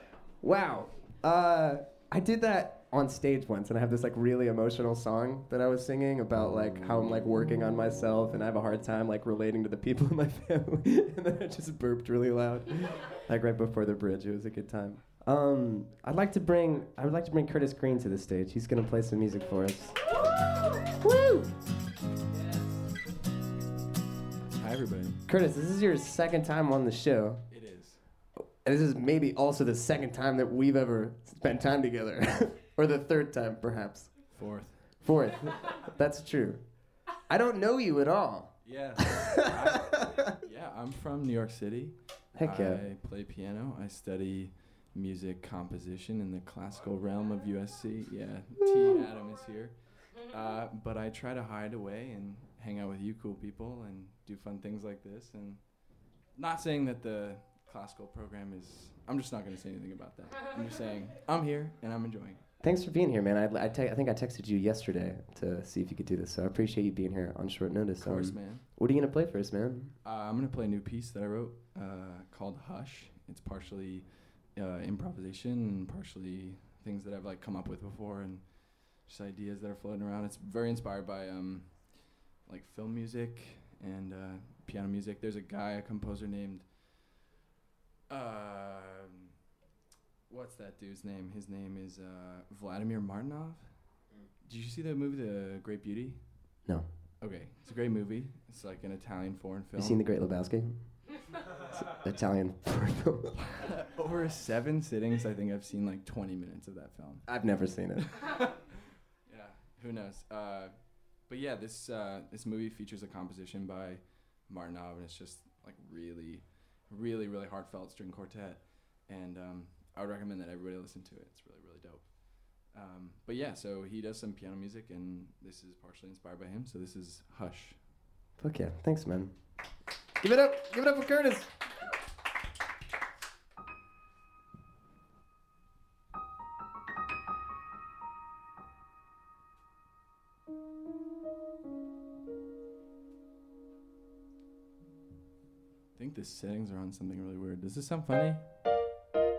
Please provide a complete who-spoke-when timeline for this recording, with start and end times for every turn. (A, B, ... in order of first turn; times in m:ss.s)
0:00.4-0:20.0 A
0:20.9-0:21.5 A
0:24.4-0:25.2 B
0:25.3-0:27.4 A
0:27.5-0:28.0 B
0:28.6-0:34.1 A
0:34.3-0:34.9 B
0:35.0-0:36.6 A
0:37.3-0:40.3 A
0:38.6-0:55.6 B
0:42.3-0:42.8 A
0:56.4-1:02.4 B
1:02.6-1:09.9 A
1:08.0-1:08.6 B
1:10.0-1:21.9 B
1:22.4-1:26.7 B
1:28.1-1:29.3 B
1:30.3-1:33.6 B
1:34.4-1:36.2 B
1:37.2-1:40.0 B
1:39.8-1:40.8 A
1:41.6-1:43.4 A
1:43.6-1:47.2 B
1:47.3-1:48.3 A
1:49.3-2:07.8 B
2:08.4-2:09.3 A
2:10.2-2:11.5 A
2:26.0-2:28.4 B